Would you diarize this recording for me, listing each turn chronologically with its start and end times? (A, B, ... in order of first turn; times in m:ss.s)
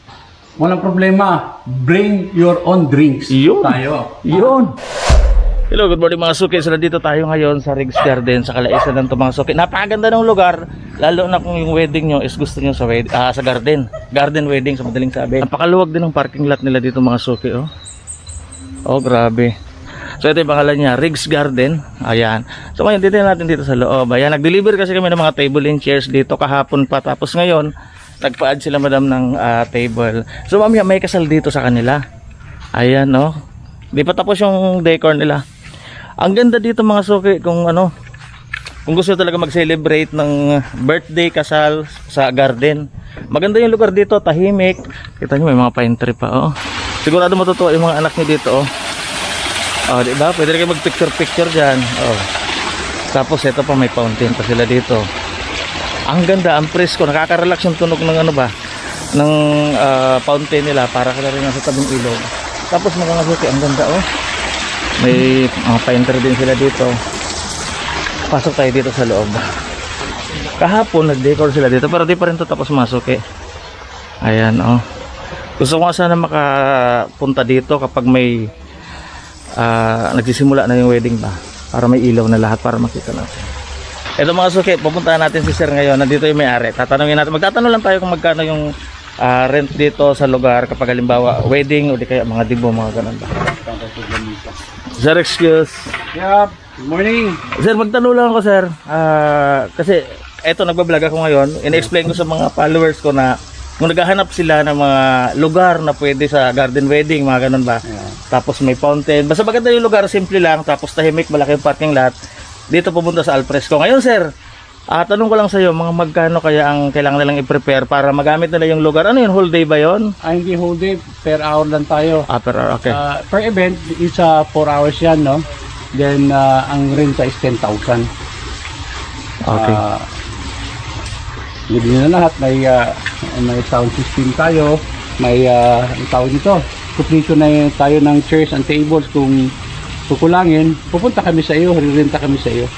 0:00.6-0:04.6 A
0:03.3-0:04.7 B
0:05.7-0:17.7 B
0:18.9-0:19.5 B
0:20.2-0:32.0 B
0:32.8-0:33.3 B
0:33.9-0:35.4 B
0:36.2-0:37.9 B
0:38.9-0:48.6 B
0:49.9-0:52.2 B
0:53.1-0:55.0 B
0:56.1-0:58.5 B
0:59.2-1:04.0 B
1:05.0-1:06.9 B
1:08.3-1:09.4 B
1:10.6-1:13.2 B
1:14.2-1:14.8 B
1:15.6-1:18.5 B
1:19.6-1:23.4 B
1:24.2-1:28.6 B
1:29.2-1:33.4 B
1:33.4-1:34.6 A
1:35.0-1:35.9 B
1:36.1-1:37.4 A
1:37.6-1:52.1 B
1:47.8-1:48.2 A
1:52.7-1:54.3 B
1:54.9-2:00.1 B
2:00.2-2:02.3 A
2:02.3-2:03.0 B
2:02.9-2:08.1 A
2:09.4-2:09.8 B
2:09.5-2:10.1 A
2:11.7-2:19.5 A
2:20.1-2:22.7 A